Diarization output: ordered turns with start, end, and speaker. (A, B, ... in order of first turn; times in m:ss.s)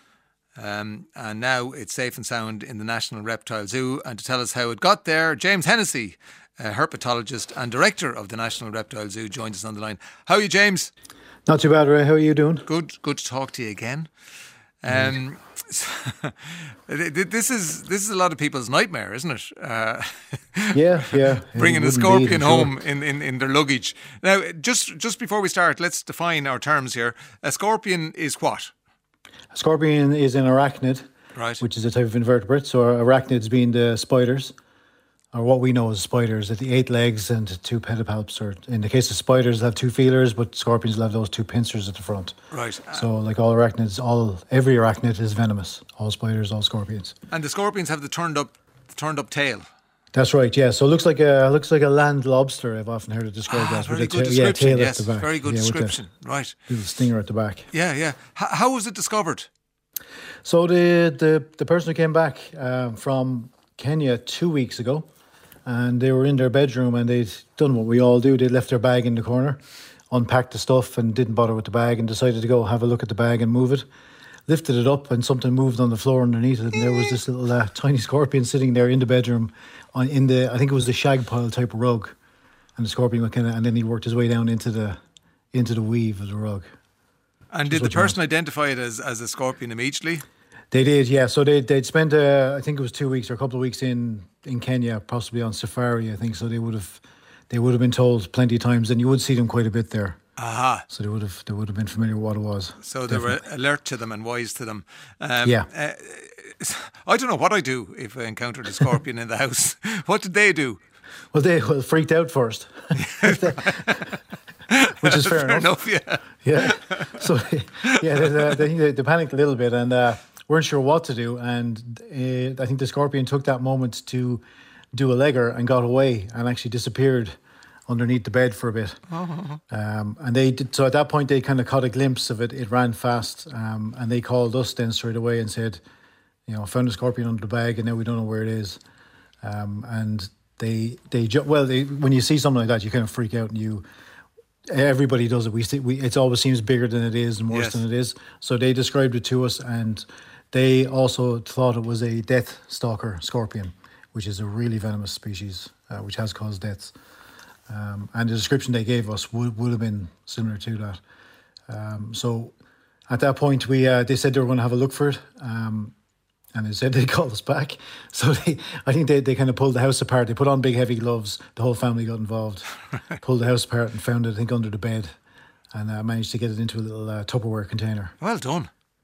0:00.6-0:10.9 A
0:11.5-0:12.7 B
0:12.7-0:14.1 A
0:14.8-0:28.7 A
0:20.7-0:22.8 B
0:29.5-0:31.1 B
0:31.4-0:31.6 A
0:31.6-0:34.6 B
0:35.3-0:42.4 B
0:42.5-0:43.1 A
0:42.9-0:47.2 B
0:47.3-0:49.7 A
0:50.1-0:56.0 B
0:53.5-0:56.6 A
0:56.7-0:57.7 B
0:57.7-0:59.5 A
1:00.4-1:05.1 B
1:05.6-1:13.9 B
1:14.5-1:22.2 B
1:22.8-1:25.0 B
1:25.5-1:26.7 B
1:27.5-1:30.2 A
1:27.7-1:28.2 B
1:30.7-1:40.2 B
1:40.4-1:40.9 A
1:40.9-1:43.4 B
1:42.8-1:50.8 A
1:45.4-1:45.7 B
1:51.3-1:54.1 B
1:53.0-1:54.2 A
1:54.7-1:57.1 A
1:54.9-1:55.7 B
1:56.4-2:07.4 B
1:58.2-1:58.5 A
2:07.9-2:09.0 B
2:09.1-2:09.6 A
2:09.7-2:15.8 B
2:16.5-2:18.8 B
2:19.4-2:23.8 B
2:24.7-2:36.9 B
2:27.5-2:27.8 A
2:37.7-2:41.0 B
2:41.7-2:42.5 B
2:43.1-2:45.9 B
2:46.5-2:52.7 B
2:53.2-2:55.1 B
2:55.7-2:58.1 B
2:58.2-2:58.7 A